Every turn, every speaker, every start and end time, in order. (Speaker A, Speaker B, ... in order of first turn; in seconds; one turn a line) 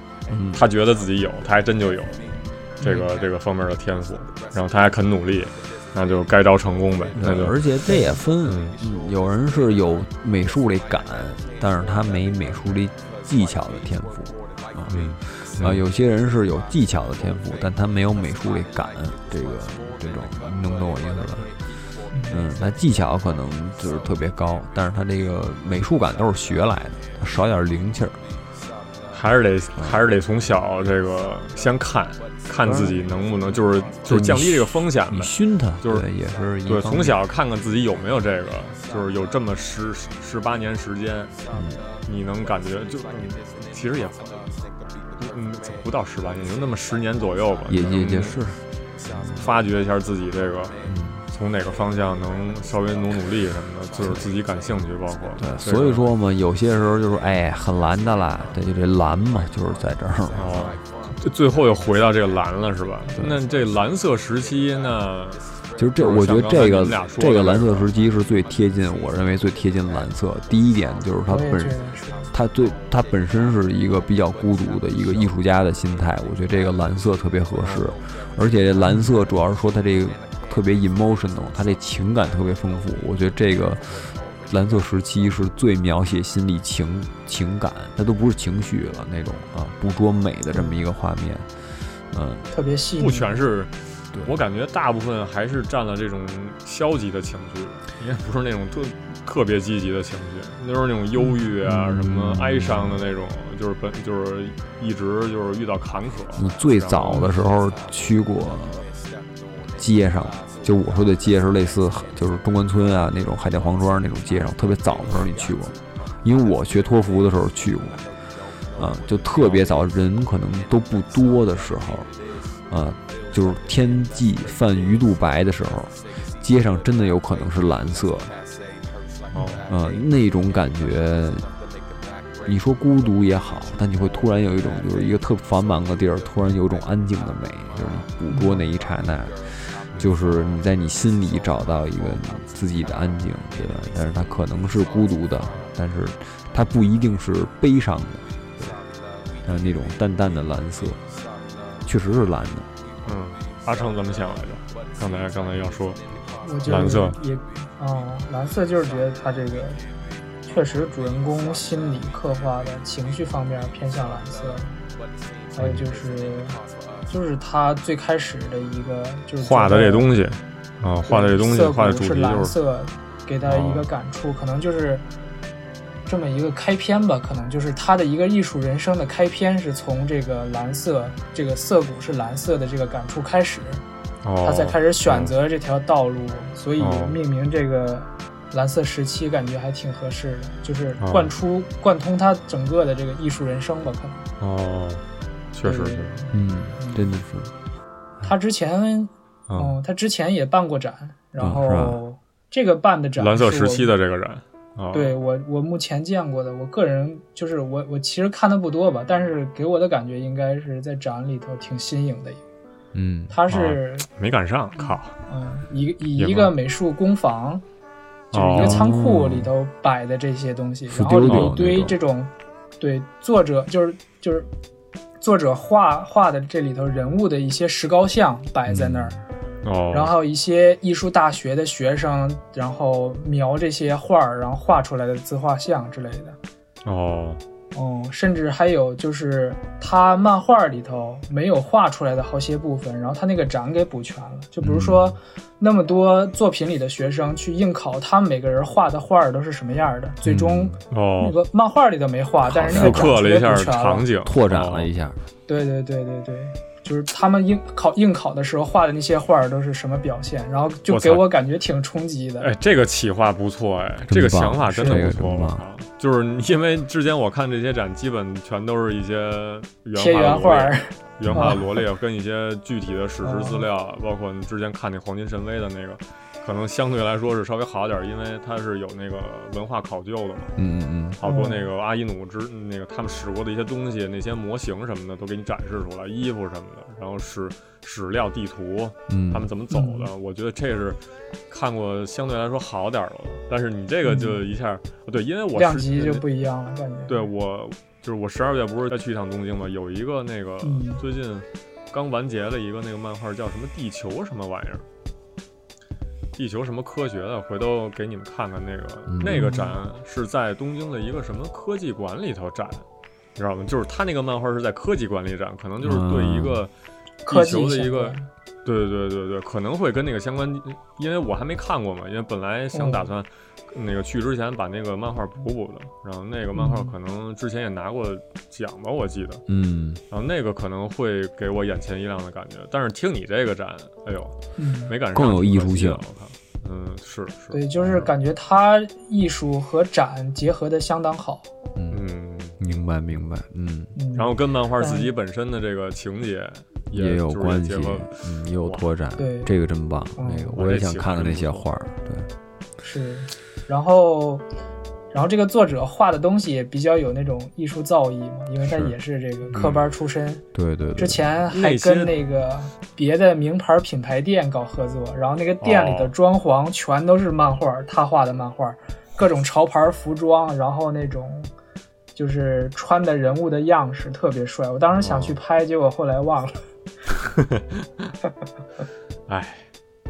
Speaker A: 0.3-0.6
Speaker B: 0.5-7.6
Speaker C: 2.8-3.1
Speaker A: 7.2-21.5
Speaker B: 8.4-8.8
Speaker B: 14.9-15.8
Speaker C: 22.1-22.4
Speaker A: 22.3-28.2
Speaker B: 29.1-36.1
Speaker A: 32.6-33.1
Speaker A: 34.0-37.2
Speaker B: 36.6-44.5
Speaker A: 41.5-41.9
Speaker B: 45.2-48.4
Speaker A: 47.7-49.5
Speaker B: 49.1-56.0
Speaker A: 50.9-51.2
Speaker A: 55.4-60.6
Speaker B: 60.3-65.5
Speaker A: 65.8-71.8
Speaker B: 66.0-67.9
Speaker C: 71.3-72.3
Speaker A: 72.3-92.5
Speaker B: 77.6-77.9
Speaker C: 78.8-79.1
Speaker C: 90.5-90.8
Speaker C: 92.5-93.4
Speaker B: 93.0-107.4
Speaker A: 101.6-103.0
Speaker A: 106.3-108.9
Speaker A: 109.8-118.1
Speaker A: 118.7-122.1
Speaker B: 119.4-119.7
Speaker A: 122.7-128.3
Speaker C: 129.3-129.6
Speaker B: 129.3-129.7
Speaker A: 129.7-131.5
Speaker A: 132.4-148.8
Speaker C: 138.3-138.7
Speaker A: 149.4-151.0
Speaker A: 151.8-152.7
Speaker B: 153.1-156.0
Speaker C: 156.4-159.8
Speaker B: 156.7-157.2
Speaker C: 160.4-164.8
Speaker C: 165.6-170.1
Speaker A: 165.6-165.8
Speaker B: 169.4-172.6
Speaker C: 171.1-175.1
Speaker B: 173.4-173.9
Speaker C: 176.1-183.8
Speaker B: 184.2-185.3
Speaker C: 184.4-194.3
Speaker B: 186.8-187.2
Speaker B: 191.0-191.3
Speaker B: 194.4-196.2
Speaker C: 195.6-197.1
Speaker A: 196.3-197.5
Speaker C: 198.2-203.9
Speaker B: 199.5-199.8
Speaker A: 201.4-202.0
Speaker B: 203.2-205.2
Speaker C: 204.9-212.4
Speaker A: 212.9-213.4
Speaker C: 213.3-214.1
Speaker B: 213.5-215.2
Speaker C: 214.8-217.6
Speaker B: 216.2-216.5
Speaker B: 218.3-218.9
Speaker C: 218.3-224.5
Speaker A: 218.5-219.5
Speaker A: 220.9-222.0
Speaker B: 221.3-221.5
Speaker C: 225.2-229.2
Speaker A: 228.7-229.2
Speaker B: 229.6-230.1
Speaker C: 229.9-236.4
Speaker B: 236.8-237.4
Speaker C: 237.7-254.1
Speaker A: 244.6-245.1
Speaker A: 250.2-250.8
Speaker B: 250.9-251.4
Speaker A: 252.4-253.2
Speaker B: 252.7-254.9
Speaker A: 254.2-255.3
Speaker C: 255.5-262.5
Speaker B: 260.9-261.3
Speaker B: 262.4-280.6
Speaker A: 264.1-265.6
Speaker C: 264.8-265.1
Speaker C: 269.9-271.8
Speaker C: 273.2-273.7
Speaker A: 280.6-281.2
Speaker B: 281.2-291.0
Speaker C: 281.2-281.7
Speaker A: 289.1-289.5
Speaker C: 289.7-290.1
Speaker B: 291.5-296.2
Speaker C: 294.0-294.4
Speaker C: 295.6-297.3
Speaker B: 297.1-304.9
Speaker C: 300.6-301.0
Speaker B: 306.4-312.9
Speaker A: 309.1-309.4
Speaker C: 309.2-309.8
Speaker B: 313.4-316.7
Speaker A: 315.8-316.6
Speaker B: 317.2-329.4
Speaker C: 317.3-318.3
Speaker C: 322.7-323.1
Speaker C: 326.5-326.9
Speaker A: 329.5-330.0
Speaker B: 330.1-334.4
Speaker C: 334.6-334.9
Speaker B: 334.9-338.0
Speaker A: 335.1-336.0
Speaker C: 337.5-341.5
Speaker A: 341.8-342.0
Speaker B: 341.9-342.6
Speaker A: 342.6-343.9
Speaker C: 344.0-345.1
Speaker B: 344.1-348.9
Speaker A: 346.9-352.3
Speaker C: 349.2-349.5
Speaker C: 350.2-350.5
Speaker B: 350.5-351.7
Speaker C: 352.8-354.4
Speaker C: 355.1-360.4
Speaker A: 358.7-358.9
Speaker B: 359.5-359.8
Speaker A: 360.5-361.2
Speaker C: 361.0-371.5
Speaker B: 361.5-362.1
Speaker B: 365.6-366.1
Speaker C: 372.1-376.6
Speaker B: 375.0-375.4
Speaker B: 377.4-377.6
Speaker B: 379.3-379.7